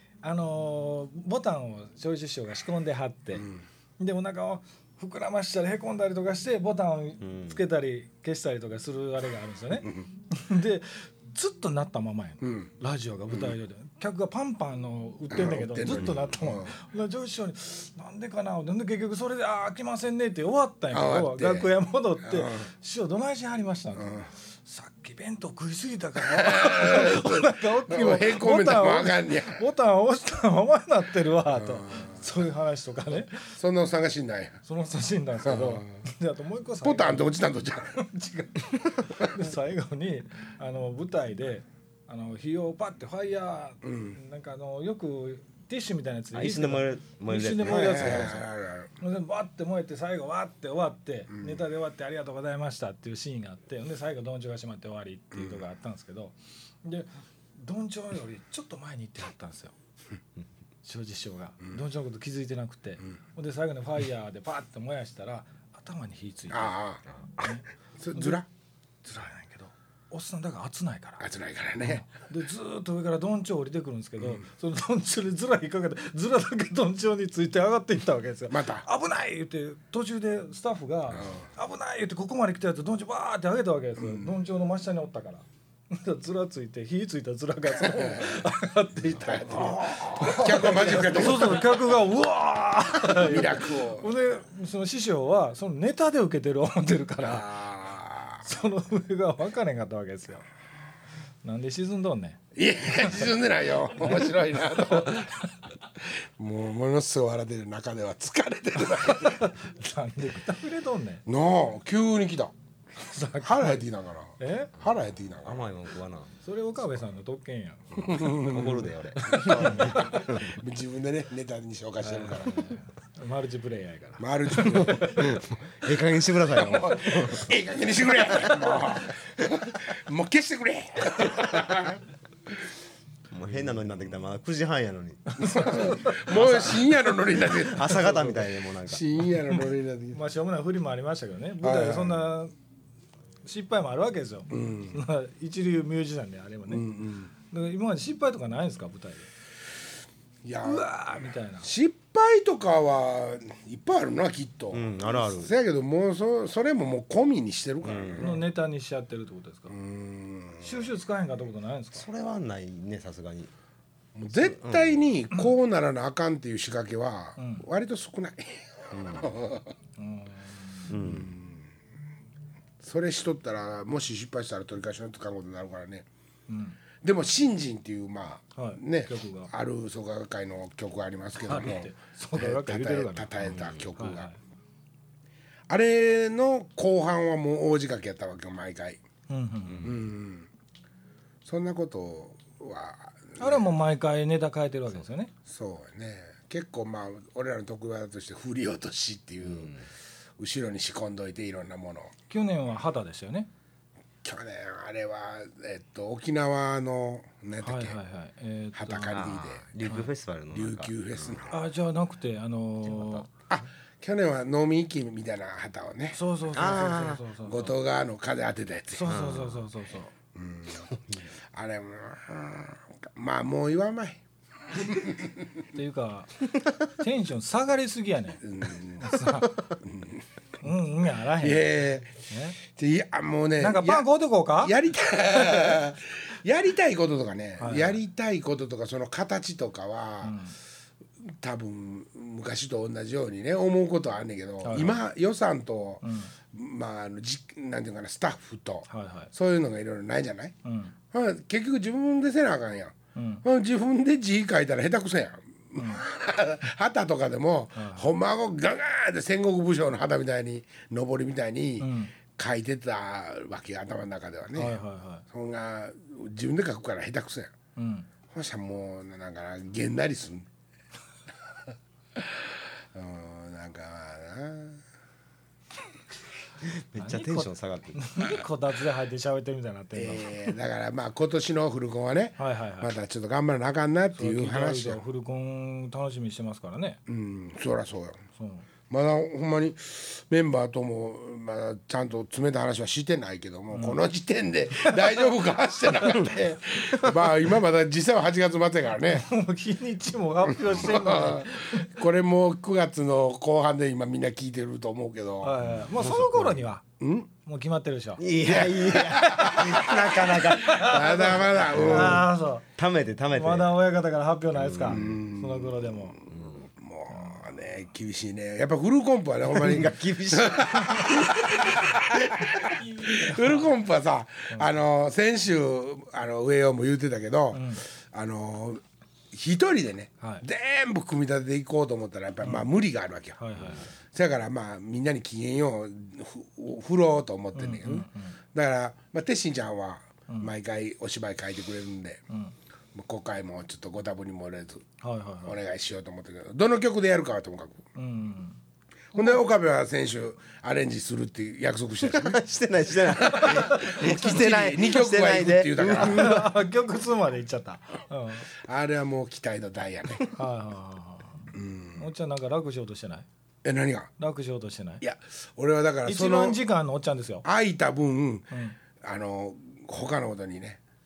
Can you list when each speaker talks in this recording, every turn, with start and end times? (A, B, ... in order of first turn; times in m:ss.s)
0:00.2-0:33.5 A
0:07.2-0:07.6 B
0:12.4-0:12.7 C
0:13.3-0:13.5 C
0:15.3-0:16.7 C
0:20.9-0:22.7 C
0:24.0-0:24.3 C
0:26.2-0:29.6 C
0:31.6-0:32.2 C
0:33.6-0:34.6 C
0:34.6-0:37.3 A
0:35.4-0:36.0 C
0:36.8-0:38.0 C
0:37.9-0:48.4 A
0:43.8-0:44.2 C
0:46.3-0:48.4 B
0:47.6-0:48.9 C
0:49.0-0:59.7 A
0:51.3-0:51.6 C
0:55.3-0:55.6 C
1:00.8-1:08.4 A
1:06.5-1:08.5 C
1:09.0-1:11.3 A
1:11.2-1:12.0 C
1:11.8-1:37.5 A
1:18.5-1:18.8 C
1:21.2-1:21.4 C
1:24.0-1:24.4 C
1:27.7-1:28.5 C
1:29.0-1:31.8 C
1:33.0-1:34.1 C
1:37.2-1:38.4 C
1:38.4-1:40.4 A
1:41.4-1:42.4 A
1:42.5-1:45.4 C
1:44.0-1:45.4 A
1:46.0-1:49.5 C
1:49.0-1:51.2 A
1:51.2-1:52.5 C
1:53.0-1:53.9 A
1:53.4-1:55.6 C
1:54.4-1:54.7 A
1:55.4-1:56.3 B
1:56.4-1:58.2 A
1:57.9-2:02.8 C
1:58.2-2:00.5 B
1:59.2-2:00.0 A
2:02.0-2:05.4 A
2:04.2-2:05.4 C
2:04.6-2:07.5 B
2:06.5-2:12.0 C
2:13.3-2:19.0 B
2:15.3-2:16.6 A
2:15.4-2:20.2 C
2:20.1-2:22.5 A
2:21.6-2:22.2 C
2:23.4-2:26.8 A
2:24.5-2:25.0 C
2:26.7-2:27.3 C
2:27.5-2:29.3 A
2:30.4-2:30.9 C
2:30.6-2:31.7 A
2:31.6-2:38.4 C
2:34.7-2:35.5 B
2:37.8-2:38.3 B
2:38.2-2:39.8 A
2:39.7-2:40.8 C
2:40.6-2:42.0 A
2:41.9-2:43.5 B
2:44.1-2:49.7 C
2:44.6-2:45.0 B
2:47.4-2:47.6 A
2:48.9-2:49.3 B
2:50.0-2:50.9 A
2:50.9-2:51.3 B
2:51.0-2:51.6 C
2:52.8-2:56.1 C
2:56.5-2:56.8 A
2:57.0-3:04.3 C
2:58.5-2:59.5 A
3:01.4-3:04.4 A
3:03.5-3:03.9 B
3:05.7-3:09.0 C
3:09.3-3:10.0 A
3:09.7-3:09.9 B
3:09.8-3:10.5 C
3:11.4-3:13.7 C
3:13.4-3:15.3 A
3:15.4-3:19.7 C
3:19.5-3:19.8 B
3:20.4-3:22.1 C
3:22.3-3:23.5 A
3:24.2-3:28.0 C
3:27.6-3:29.3 A
3:28.7-3:29.9 C
3:29.1-3:31.4 B
3:30.5-3:31.5 C
3:31.5-3:33.3 A
3:33.5-3:36.9 C
3:36.1-3:37.8 A
3:36.5-3:37.2 B
3:37.4-3:39.2 C
3:38.9-3:40.1 A
3:39.1-3:39.6 B
3:40.3-3:40.9 C
3:41.5-3:45.4 C
3:45.7-3:49.7 A
3:48.4-3:49.2 C
3:49.8-3:50.2 C
3:50.6-3:52.6 A
3:51.4-3:52.1 C
3:52.7-3:54.1 C
3:53.6-3:54.7 A
3:54.6-4:00.4 C
3:55.4-3:55.7 A
3:57.6-3:58.0 A
4:00.2-4:00.6 A
4:01.4-4:10.6 C
4:04.6-4:05.0 A
4:06.0-4:06.3 A
4:08.9-4:09.3 A
4:10.6-4:10.9 A
4:11.1-4:27.5 C
4:13.1-4:13.4 A
4:15.8-4:16.0 A
4:17.8-4:18.1 A
4:21.8-4:22.1 A
4:24.5-4:25.2 A
4:27.8-4:28.1 A
4:28.3-4:30.5 C
4:32.1-4:34.8 C
4:36.7-4:38.1 B
4:37.0-4:40.4 A
4:39.9-4:45.0 C
4:42.4-4:42.9 A
4:44.2-4:47.0 A
4:47.1-4:48.2 C
4:48.4-4:48.7 A
4:48.9-4:59.3 C
4:53.7-4:54.0 A
4:59.1-5:01.9 A
5:00.5-5:05.6 C
5:05.4-5:06.8 A
5:07.0-5:07.3 C
5:07.4-5:08.2 A
5:08.2-5:13.7 B
5:08.4-5:12.3 C
5:10.4-5:12.6 A
5:13.3-5:16.2 A
5:14.5-5:15.2 B
5:14.9-5:33.4 C
5:19.5-5:21.9 B
5:20.8-5:21.0 A
5:23.0-5:23.7 A
5:27.5-5:27.8 A
5:32.4-5:32.7 A
5:33.4-5:33.9 A
5:34.1-5:42.2 C
5:37.5-5:38.4 A
5:42.9-5:44.8 C
5:45.0-5:45.6 A
5:45.4-5:47.8 C
5:48.0-5:48.6 A
5:49.1-5:52.4 C
5:52.0-5:56.5 B
5:52.9-5:56.4 C
5:53.3-5:54.0 A
5:55.8-5:58.5 A
5:58.6-6:00.3 C
6:00.3-6:03.2 A
6:01.5-6:02.1 C
6:03.6-6:04.1 C
6:04.2-6:05.0 A
6:05.0-6:06.6 C
6:06.0-6:07.4 A
6:07.4-6:10.8 C
6:08.5-6:08.8 A